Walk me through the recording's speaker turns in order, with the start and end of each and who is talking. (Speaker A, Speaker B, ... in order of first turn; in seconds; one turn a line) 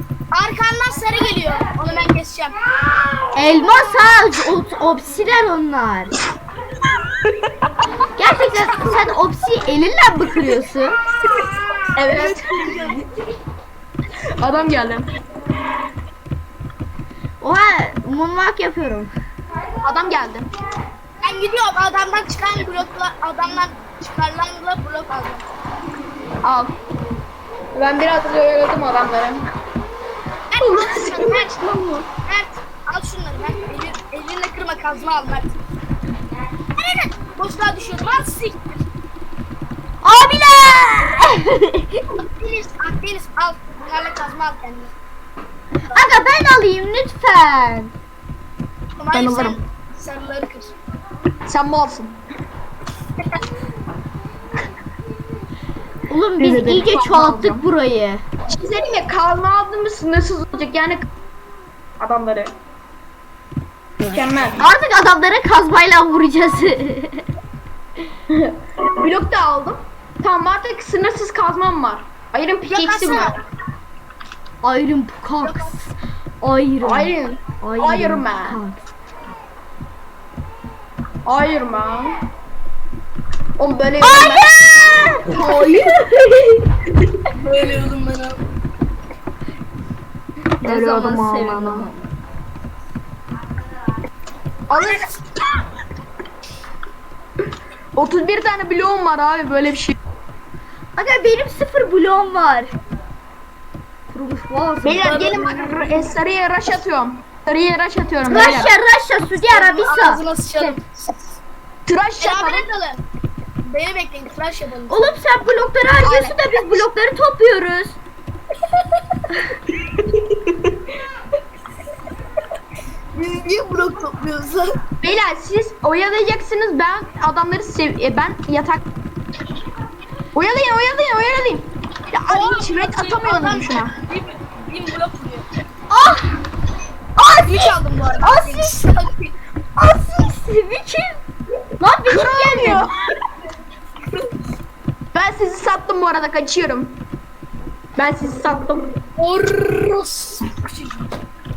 Speaker A: 0.3-2.6
Speaker B: 3.3-6.1
Speaker B: 8.2-10.9
Speaker C: 11.9-13.0
Speaker A: 12.0-13.1
Speaker C: 14.4-15.1
Speaker B: 17.4-19.1
Speaker C: 19.8-20.5
Speaker A: 21.2-25.5
Speaker C: 26.4-26.7
Speaker C: 27.7-29.4
Speaker A: 30.5-31.6
Speaker C: 30.6-32.1
Speaker A: 32.2-35.6
Speaker A: 36.8-38.8
Speaker B: 40.0-42.1
Speaker A: 42.2-44.9
Speaker B: 45.9-47.9
Speaker A: 49.0-50.7
Speaker C: 49.1-49.6
Speaker C: 51.5-52.2
Speaker B: 56.1-58.2
Speaker C: 56.4-57.7
Speaker C: 58.5-61.0
Speaker C: 62.0-62.5
Speaker C: 64.0-64.7
Speaker B: 64.6-67.3
Speaker C: 68.3-73.4
Speaker A: 72.7-73.3
Speaker B: 74.6-78.9
Speaker A: 75.4-75.8
Speaker C: 76.8-78.6
Speaker C: 81.3-82.2
Speaker C: 83.6-84.5
Speaker B: 84.0-86.7
Speaker C: 85.3-86.0
Speaker A: 87.4-88.4
Speaker B: 90.6-92.1
Speaker C: 90.6-91.9
Speaker C: 94.7-95.4
Speaker A: 94.8-95.1
Speaker C: 98.0-100.0
Speaker B: 101.0-102.7
Speaker B: 104.1-105.9
Speaker C: 104.8-108.7
Speaker A: 104.9-106.0
Speaker B: 108.2-110.8
Speaker A: 108.3-108.7
Speaker A: 109.3-111.4
Speaker C: 111.9-112.7
Speaker A: 112.2-113.0
Speaker A: 113.6-115.2
Speaker B: 114.9-118.0
Speaker A: 116.1-116.3
Speaker C: 119.9-120.8
Speaker A: 123.2-124.8
Speaker C: 125.0-128.8
Speaker C: 130.3-133.9
Speaker A: 132.3-135.5
Speaker B: 135.9-136.4
Speaker B: 137.2-138.8
Speaker A: 137.4-139.3
Speaker B: 139.8-141.2
Speaker B: 141.8-142.9
Speaker C: 142.1-143.0
Speaker C: 145.1-147.0
Speaker C: 148.0-148.9
Speaker A: 149.2-151.1